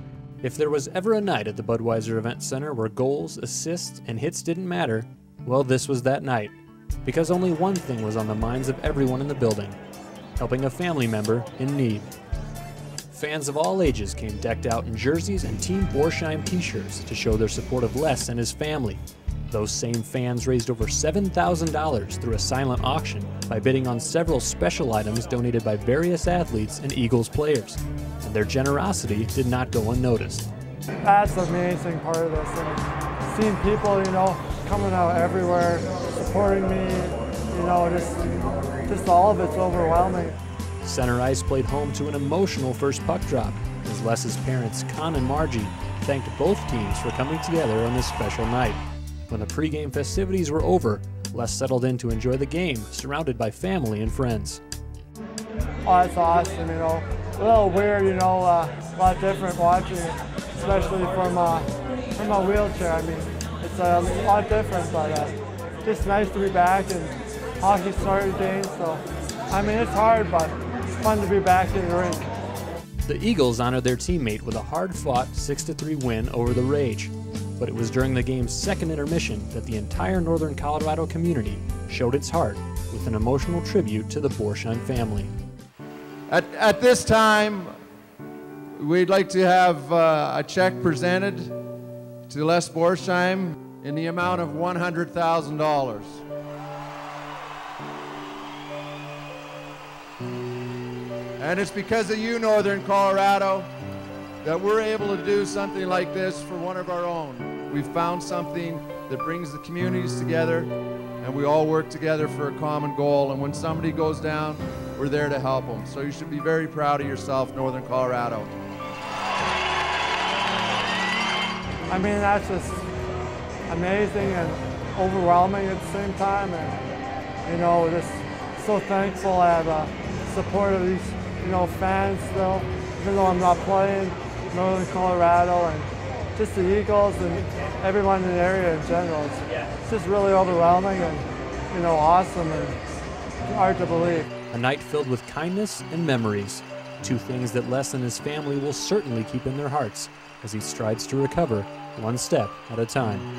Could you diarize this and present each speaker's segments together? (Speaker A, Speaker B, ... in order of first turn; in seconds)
Speaker A: 0.4-9.8, 10.4-12.1, 13.1-30.5, 40.8-54.6, 73.0-85.3, 144.5-153.3
Speaker B: 31.0-38.3, 38.9-40.4, 55.8-72.3, 121.9-122.9, 123.7-126.8, 127.5-142.8, 143.5-144.3
Speaker C: 86.3-87.7, 88.7-91.5, 92.3-96.2, 101.4-103.7, 104.4-118.5